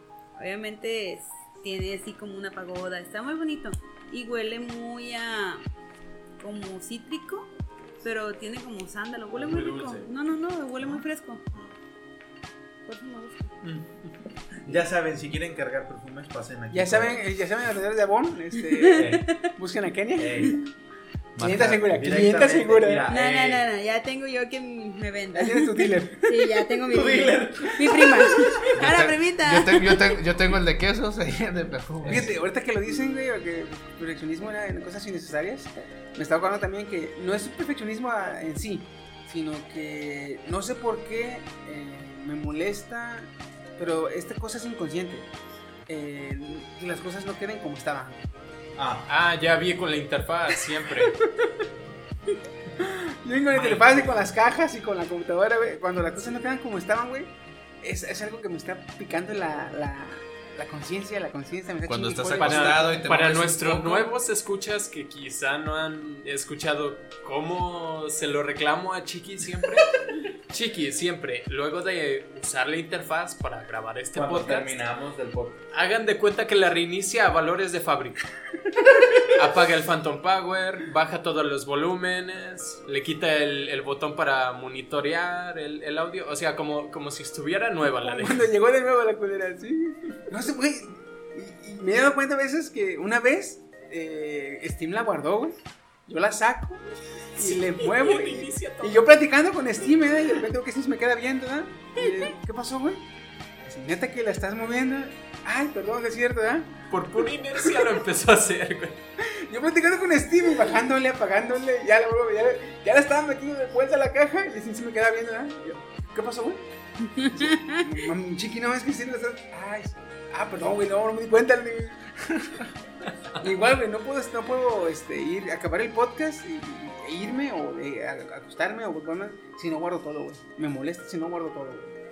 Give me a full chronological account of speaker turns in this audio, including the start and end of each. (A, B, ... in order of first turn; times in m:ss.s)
0:00.4-0:05.6 A
0:06.4-0:07.5 A
0:08.0-0:11.4 A
0:09.3-0:10.1 B
0:10.8-0:11.7 B
0:12.8-0:13.5 A
0:13.6-0:14.1 C
0:14.6-0:17.2 B
0:16.7-0:20.6 D
0:18.6-0:19.2 A
0:18.9-0:19.2 B
0:20.2-0:20.6 B
0:21.4-0:23.7 B
0:21.4-0:23.1 D
0:23.1-0:30.1 A
0:25.3-0:26.7 D
0:26.8-0:28.2 B
0:27.9-0:28.3 D
0:28.8-0:32.3 E
0:32.0-0:32.3 B
0:32.1-0:45.3 D
0:45.9-0:48.2 D
0:48.8-0:49.1 B
0:49.1-0:51.2 C
0:51.1-0:51.5 D
0:52.8-1:03.1 D
0:53.5-0:54.0 C
1:01.8-1:04.1 E
1:02.4-1:09.9 C
1:10.5-1:14.8 C
1:14.1-1:15.6 B
1:15.7-1:18.2 C
1:19.2-1:28.5 C
1:28.0-1:36.8 D
1:37.4-1:39.1 C
1:37.4-1:43.0 D
1:43.6-1:46.8 D
1:46.9-1:49.0 C
1:49.2-1:56.6 D
1:57.2-1:57.6 A
1:57.2-2:02.6 D
2:03.4-2:11.9 D